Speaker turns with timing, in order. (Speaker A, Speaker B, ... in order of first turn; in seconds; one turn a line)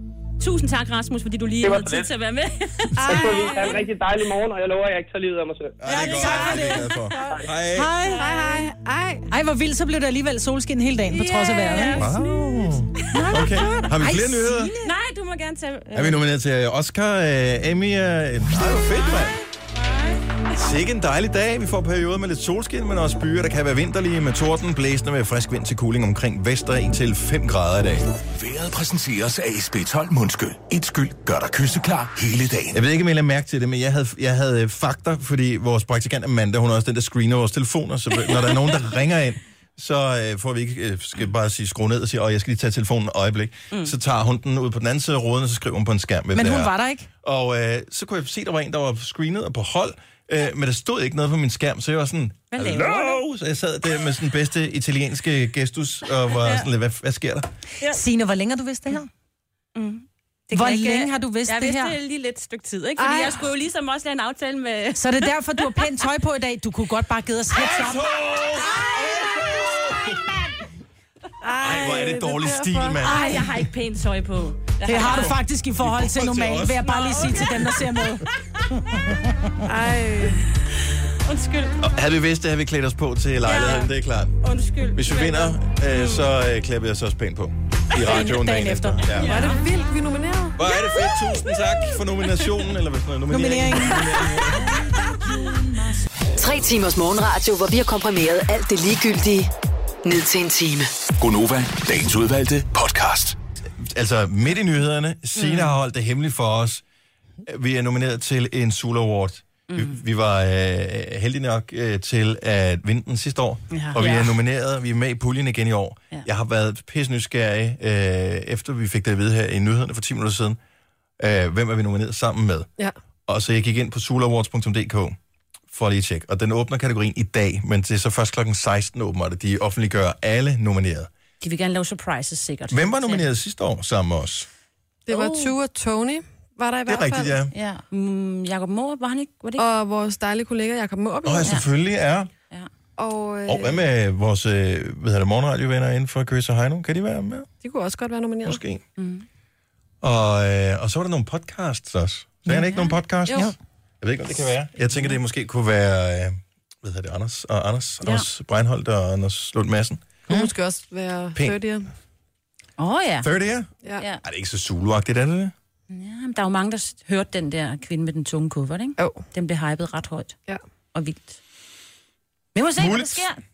Speaker A: 0.4-3.8
Speaker B: 1.6-2.1
Speaker C: 3.0-3.8
Speaker B: 3.1-5.8
Speaker D: 5.8-7.9
Speaker C: 5.8-8.3
Speaker A: 6.2-7.0
Speaker A: 8.0-8.6
Speaker E: 8.2-9.3
Speaker C: 9.3-12.1
Speaker A: 11.1-12.4
Speaker D: 12.0-14.7
Speaker A: 13.0-13.8
Speaker C: 13.1-14.9
Speaker A: 14.8-16.2
Speaker D: 15.9-19.4
Speaker A: 19.8-20.1
Speaker D: 20.5-28.1
Speaker F: 28.3-32.8
Speaker D: 32.7-57.5
Speaker A: 38.3-38.8
Speaker C: 46.3-47.1
Speaker A: 52.5-53.2
Speaker A: 56.3-56.7
Speaker C: 57.9-59.1
Speaker A: 59.7-66.0
Speaker C: 60.5-61.9
Speaker E: 63.0-63.5
Speaker C: 65.0-68.0
Speaker D: 67.5-70.3
Speaker C: 71.4-72.1
Speaker D: 71.6-73.7
Speaker E: 71.7-73.3
Speaker A: 71.8-72.1
Speaker A: 73.0-75.4
Speaker C: 73.1-73.5
Speaker C: 74.9-79.2
Speaker D: 75.0-77.8
Speaker A: 76.8-77.5
Speaker E: 79.6-80.5
Speaker A: 81.2-81.8
Speaker D: 81.8-84.4
Speaker A: 83.4-83.9
Speaker A: 84.4-86.3
Speaker D: 84.9-89.3
Speaker C: 87.9-89.4
Speaker A: 89.1-89.6
Speaker E: 89.2-90.6
Speaker D: 90.5-94.8
Speaker C: 93.3-95.7
Speaker G: 96.4-99.5
Speaker G: 100.0-100.9
Speaker F: 101.2-103.3
Speaker D: 103.8-106.8
Speaker A: 105.3-105.7
Speaker D: 107.4-120.6
Speaker A: 109.7-110.0
Speaker A: 113.7-114.4
Speaker D: 121.2-122.7
Speaker D: 123.3-125.2
Speaker D: 125.7-131.1
Speaker A: 131.4-133.3
Speaker D: 132.7-134.5
Speaker E: 135.1-137.3
Speaker A: 135.1-135.5
Speaker D: 136.9-137.5
Speaker A: 137.5-139.6
Speaker E: 139.6-141.6
Speaker D: 141.2-142.3
Speaker E: 143.0-143.8
Speaker D: 143.5-147.5
Speaker E: 147.6-148.6
Speaker D: 148.4-148.8
Speaker A: 149.0-149.2
Speaker D: 150.0-160.0
Speaker C: 152.5-152.7
Speaker A: 152.7-152.9
Speaker E: 153.3-153.5
Speaker E: 160.3-161.9
Speaker A: 162.8-163.3
Speaker D: 163.2-163.7
Speaker D: 164.2-165.5
Speaker A: 165.9-170.3
Speaker E: 169.0-169.2
Speaker A: 170.9-171.4
Speaker A: 172.5-173.4
Speaker D: 172.8-173.2